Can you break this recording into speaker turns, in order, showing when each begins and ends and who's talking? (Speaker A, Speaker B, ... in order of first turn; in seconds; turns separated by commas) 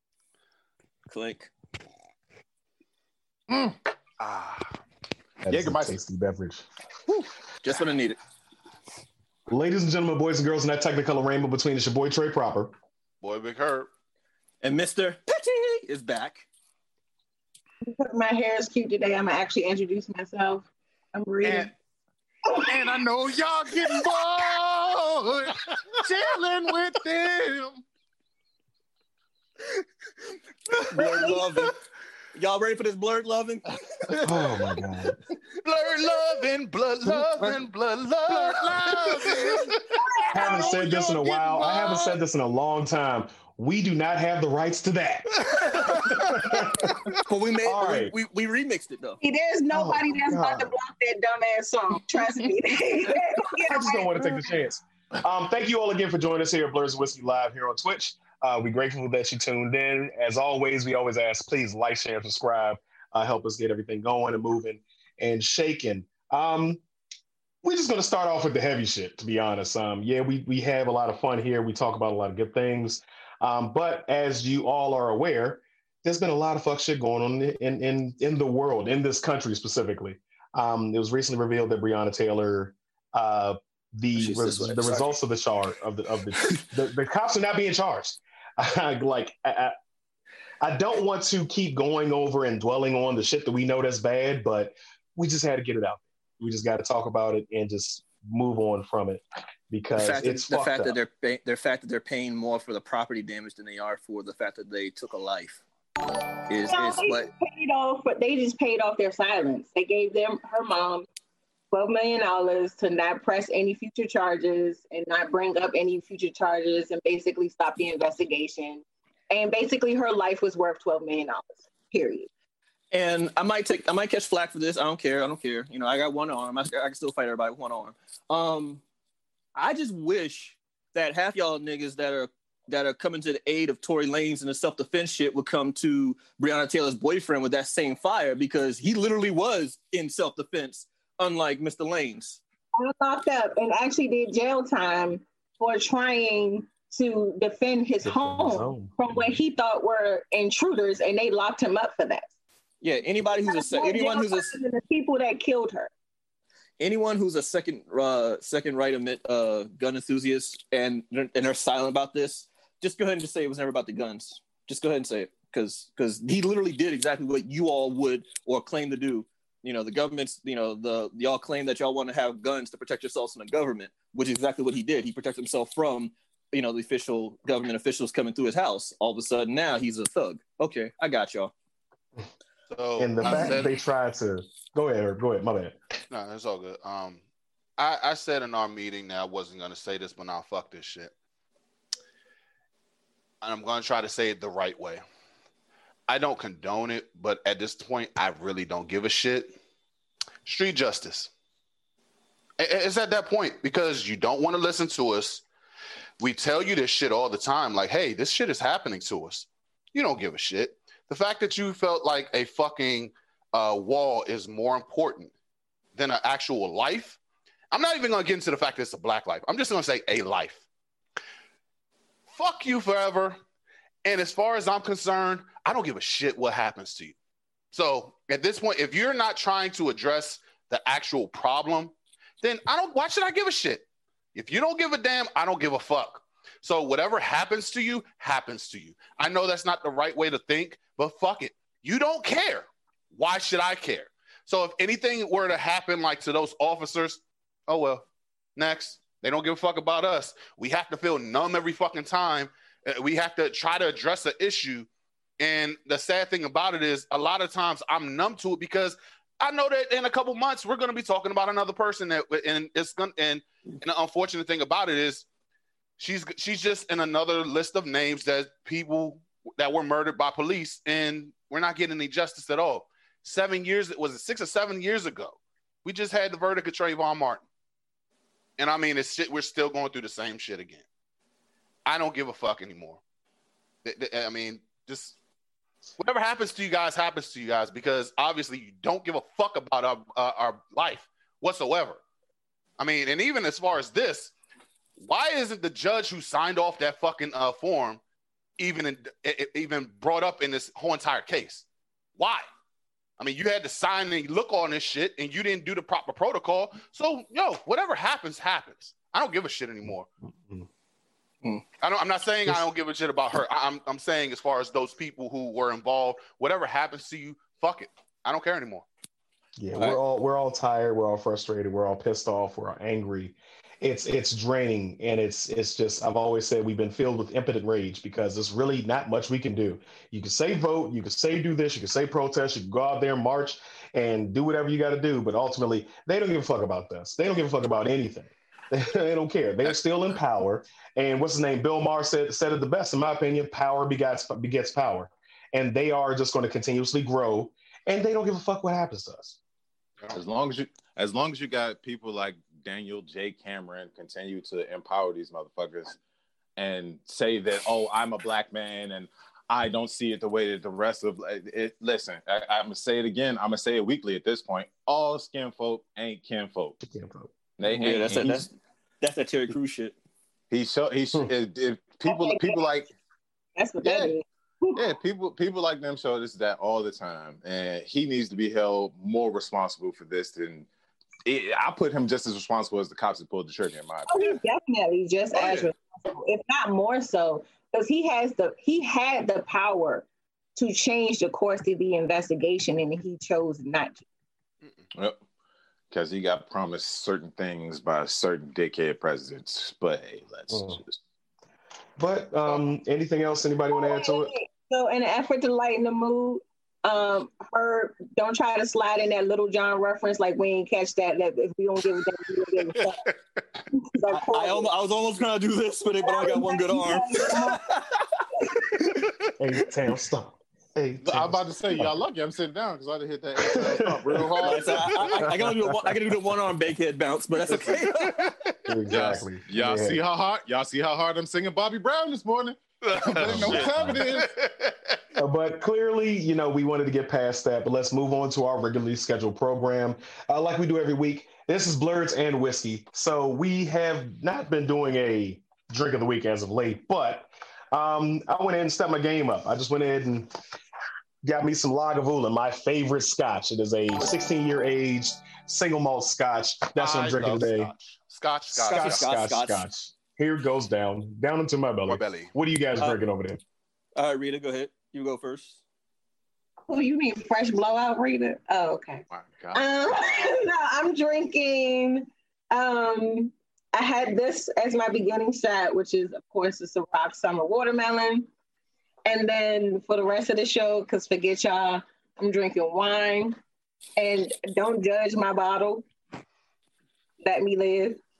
Speaker A: 1.1-1.5, Speaker B: 3.5-3.8, Speaker C: 4.2-4.8, Speaker D: 5.4-6.7, Speaker B: 5.5-6.0, Speaker A: 7.1-8.2, Speaker D: 9.5-12.8, Speaker C: 13.2-13.9, Speaker A: 14.6-16.5, Speaker E: 17.9-21.7, Speaker B: 21.4-21.7, Speaker E: 22.5-22.9, Speaker B: 22.7-27.8, Speaker A: 30.9-31.7, Speaker E: 31.0-31.5, Speaker A: 32.4-34.4, Speaker D: 34.2-35.2, Speaker C: 35.6-39.8, Speaker B: 37.0-37.6, Speaker B: 38.3-39.8, Speaker E: 40.0-40.8, Speaker B: 40.3-42.2, Speaker D: 40.3-47.0, Speaker C: 45.5-46.9, Speaker A: 47.2-49.2, Speaker D: 47.6-48.1, Speaker E: 49.2-54.5, Speaker D: 49.7-50.7, Speaker D: 53.7-66.8, Speaker D: 67.6-89.8, Speaker A: 84.2-85.1, Speaker A: 86.4-86.7, Speaker D: 90.6-101.0, Speaker A: 100.0-105.6, Speaker A: 106.5-107.3, Speaker E: 106.7-111.1, Speaker E: 111.7-122.3, Speaker A: 122.9-128.8, Speaker A: 129.6-142.4, Speaker E: 142.8-152.3, Speaker D: 148.0-148.9, Speaker A: 152.8-154.5, Speaker E: 153.4-155.9, Speaker A: 156.8-181.5, Speaker C: 182.7-183.8, Speaker D: 183.0-185.8, Speaker C: 186.1-187.2, Speaker C: 187.8-191.1, Speaker C: 193.4-195.0, Speaker C: 196.1-199.6, Speaker C: 200.4-201.3, Speaker C: 202.6-205.4, Speaker C: 206.2-215.3, Speaker C: 215.9-217.2, Speaker C: 217.7-220.6, Speaker C: 222.3-223.4, Speaker C: 224.1-227.2, Speaker C: 227.7-248.0, Speaker C: 248.6-254.9, Speaker C: 255.4-265.3, Speaker C: 266.0-277.4, Speaker C: 278.6-280.9, Speaker C: 281.9-283.0, Speaker C: 283.8-285.2, Speaker C: 286.0-292.0, Speaker C: 292.8-294.3, Speaker C: 295.0-298.0, Speaker C: 298.6-301.6, Speaker C: 302.2-302.5, Speaker C: 303.2-310.1, Speaker D: 310.3-310.7, Speaker C: 311.8-318.9, Speaker D: 319.6-349.4, Speaker B: 350.1-356.0, Speaker B: 356.6-366.8, Speaker D: 366.8-367.3, Speaker B: 367.6-368.5, Speaker A: 367.7-369.9, Speaker B: 370.5-372.9, Speaker E: 372.1-372.7, Speaker E: 373.6-374.9, Speaker B: 373.8-374.2, Speaker B: 374.8-380.7, Speaker B: 381.2-384.4, Speaker E: 384.1-394.0, Speaker C: 385.4-385.7, Speaker B: 395.9-401.0, Speaker D: 400.5-400.8, Speaker D: 402.0-404.3, Speaker E: 403.7-413.1, Speaker E: 413.7-414.7, Speaker A: 414.1-418.1, Speaker E: 416.0-417.6, Speaker D: 419.4-422.0, Speaker B: 421.0-425.2, Speaker D: 423.4-424.5, Speaker A: 424.4-428.3, Speaker D: 425.2-426.0, Speaker C: 428.0-428.3, Speaker D: 428.7-430.0, Speaker B: 428.9-434.3, Speaker C: 432.8-435.0, Speaker D: 433.2-434.0, Speaker D: 435.2-450.3, Speaker D: 451.2-457.7, Speaker C: 456.8-459.1, Speaker D: 458.6-463.4, Speaker A: 458.6-459.6, Speaker C: 461.9-462.3, Speaker A: 464.0-465.6, Speaker E: 466.7-478.3, Speaker B: 469.1-469.6, Speaker E: 479.1-483.4, Speaker E: 484.0-485.9, Speaker E: 487.2-488.0